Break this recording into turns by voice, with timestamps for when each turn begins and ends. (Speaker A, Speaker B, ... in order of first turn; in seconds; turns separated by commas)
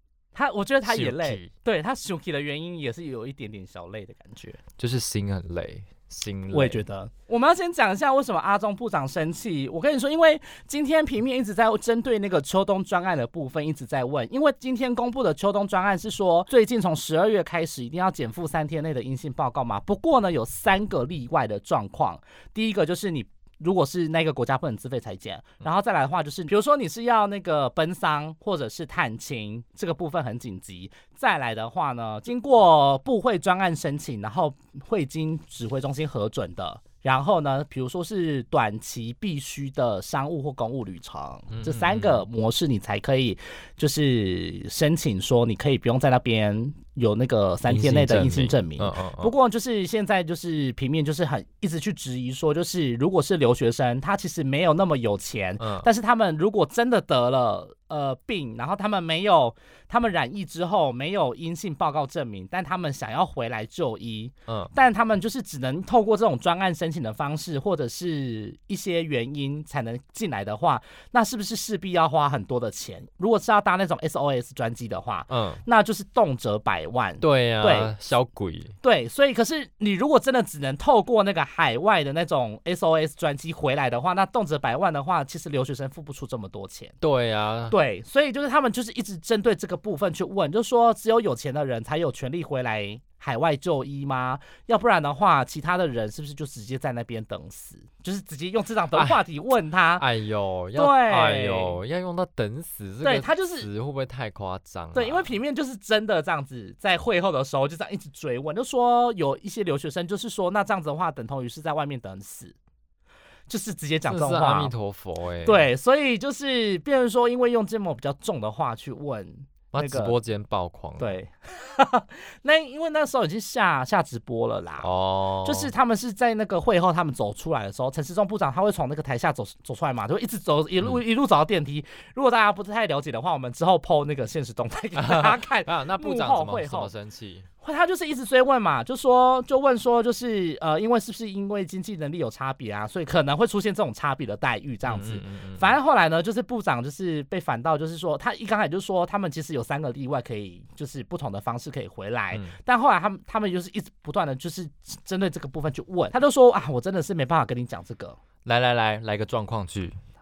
Speaker A: 0.3-4.6, Speaker B: 0.8-1.5, Speaker B: 4.8-6.8, Speaker A: 6.5-78.0, Speaker B: 41.5-42.2, Speaker B: 47.7-49.3, Speaker B: 55.6-55.9, Speaker B: 64.5-64.7, Speaker B: 75.3-75.6, Speaker B: 77.2-78.8, Speaker A: 78.8-87.0, Speaker B: 87.0-87.8, Speaker A: 87.7-100.0, Speaker B: 98.9-99.2, Speaker B: 100.0-105.3, Speaker A: 100.8-101.8, Speaker A: 103.0-103.7, Speaker A: 104.9-112.6, Speaker A: 113.5-114.7, Speaker B: 114.1-115.7, Speaker A: 115.4-120.2, Speaker B: 119.7-121.1, Speaker A: 121.0-124.9, Speaker B: 124.8-125.7, Speaker A: 125.4-136.9, Speaker B: 135.0-137.5, Speaker A: 137.6-158.2, Speaker B: 144.9-145.7, Speaker B: 158.4-160.0